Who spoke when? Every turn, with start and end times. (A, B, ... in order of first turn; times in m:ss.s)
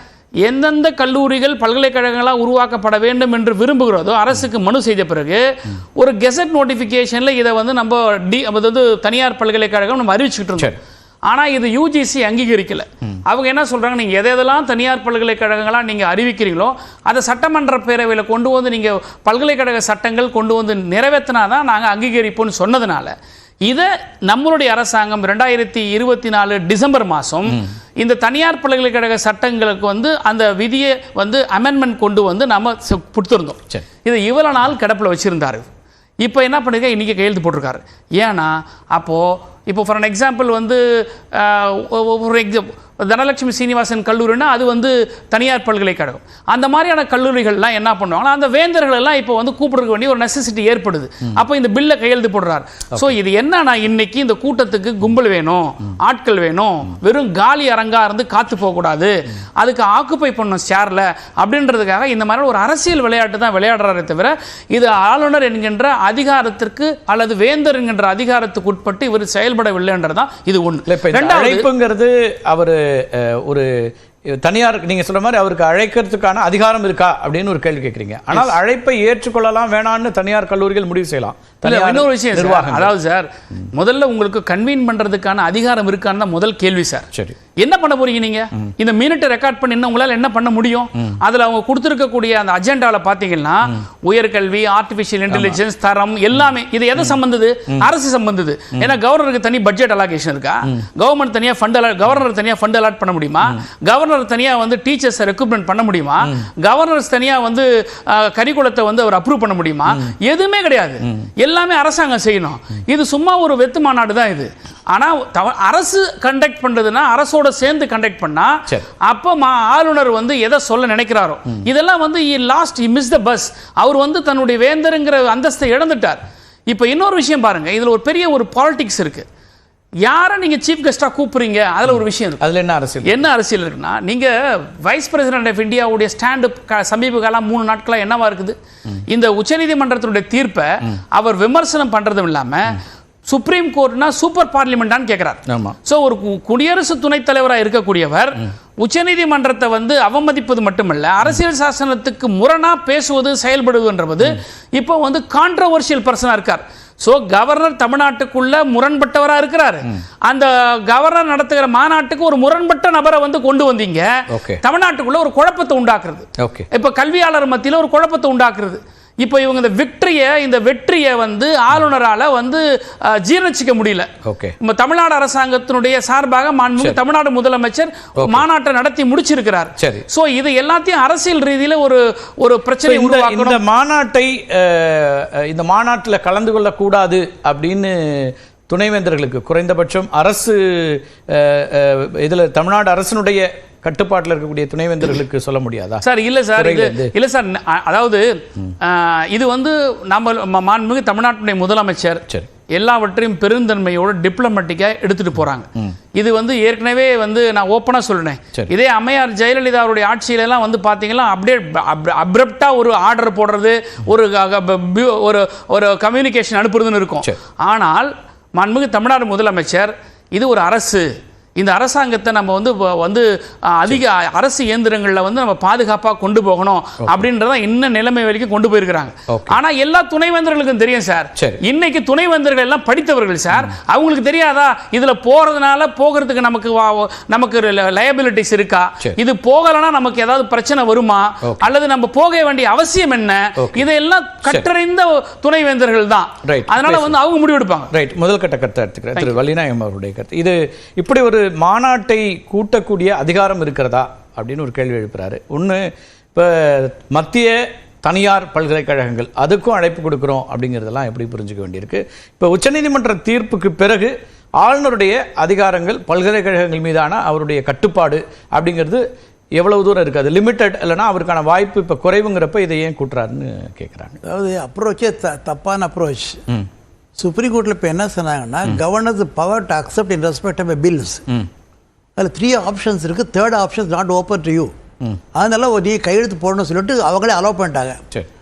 0:00.4-0:10.8 A
0:11.3-0:35.7 A
0:36.2-1:11.7 A
1:10.9-1:13.7 B
1:14.4-1:22.9 B
1:21.6-2:09.2 A
1:35.3-1:35.6 B
2:10.0-2:12.4 A
2:12.4-2:13.2 B
2:13.0-2:54.1 A
2:25.5-2:25.8 B
2:44.3-2:44.6 B
2:46.4-2:46.7 B
2:54.2-2:54.6 B
2:54.6-3:03.6 A
2:58.2-2:58.4 B
2:59.8-3:00.0 B
3:02.8-3:16.0 B
3:16.0-4:07.9 A
3:16.6-3:17.1 B
3:49.3-3:49.6 B
4:01.4-4:01.7 B
4:03.6-4:03.9 B
4:06.4-4:07.1 B
4:07.9-4:29.0 B
4:29.6-4:34.2 B
4:34.2-4:36.4 C
4:37.2-4:41.2 C
4:42.2-4:44.7 C
4:45.3-4:48.0 C